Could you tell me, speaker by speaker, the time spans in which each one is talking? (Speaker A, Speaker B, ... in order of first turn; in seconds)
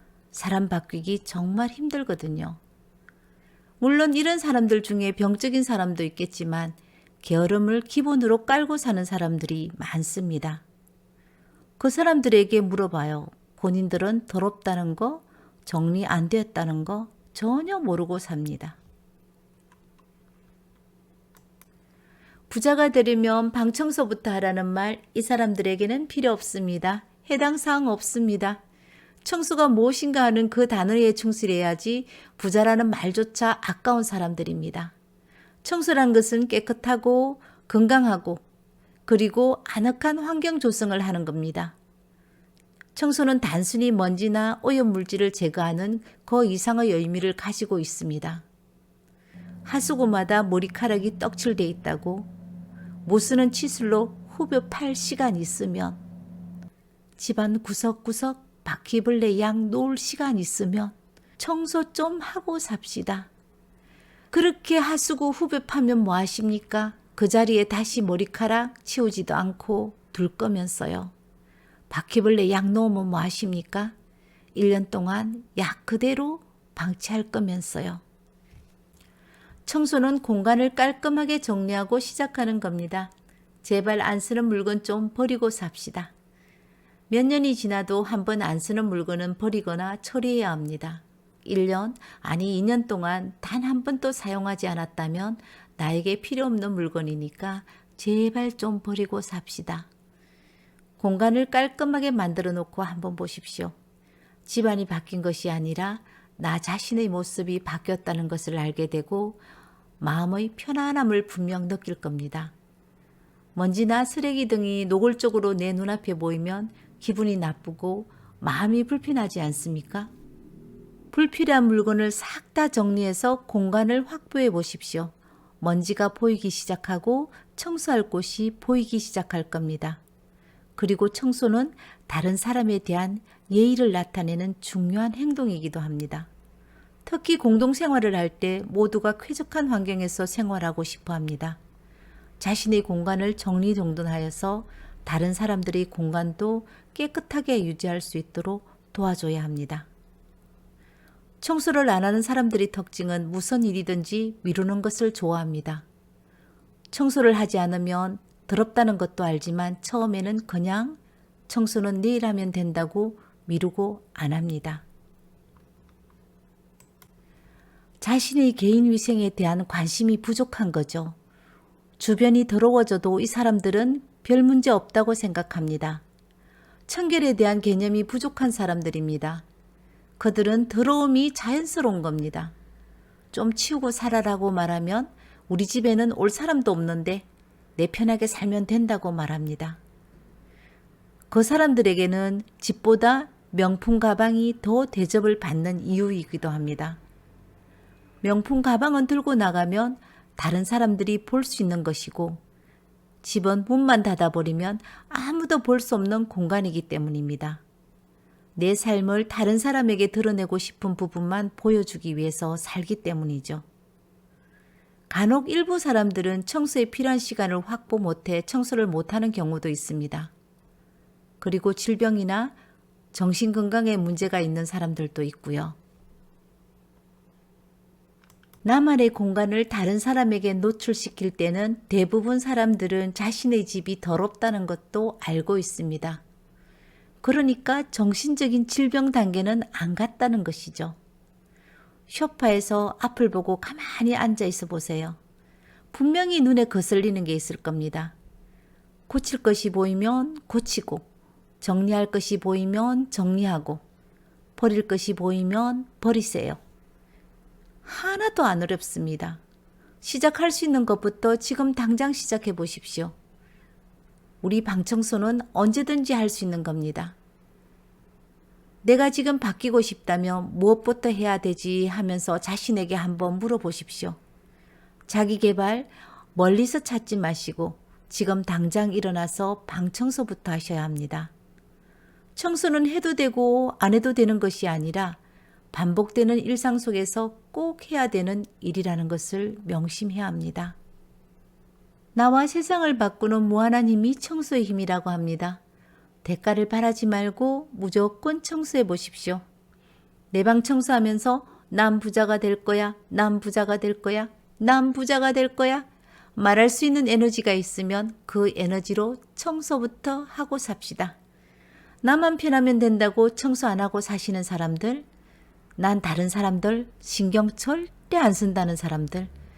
Speaker A: 0.3-2.6, 3.8-10.6, 11.8-18.8, 22.5-28.6, 29.2-34.9, 35.6-38.4, 39.1-41.8, 43.0-48.4, 49.6-52.3, 53.0-56.0, 57.2-63.3, 64.3-71.1, 71.9-73.9, 74.5-78.0, 79.7-83.1, 83.6-86.1, 87.1-99.9, 101.0-103.7, 104.5-109.4, 110.0-112.5, 113.5-120.1, 121.1-130.0, 130.8-136.3, 137.1-141.6, 142.4-149.9, 151.4-155.8, 156.9-161.0, 161.5-164.8, 168.0-171.2, 172.0-176.0, 176.9-179.4, 180.2-182.5, 183.3-187.2, 187.8-189.8, 191.3-197.0, 198.2-202.4, 203.2-207.6, 208.6-213.7, 215.1-220.3, 221.4-222.6, 223.1-225.8, 228.6-236.2, 237.2-241.0, 242.1-245.2, 245.9-248.1, 249.1-251.1, 251.6-253.8, 254.6-256.6, 257.9-259.4, 260.0-263.1, 264.4-267.1, 268.8-274.2, 275.1-281.3, 282.4-285.2, 285.7-290.8, 292.1-295.6, 296.2-299.4, 300.3-311.2, 312.0-315.1, 315.8-319.3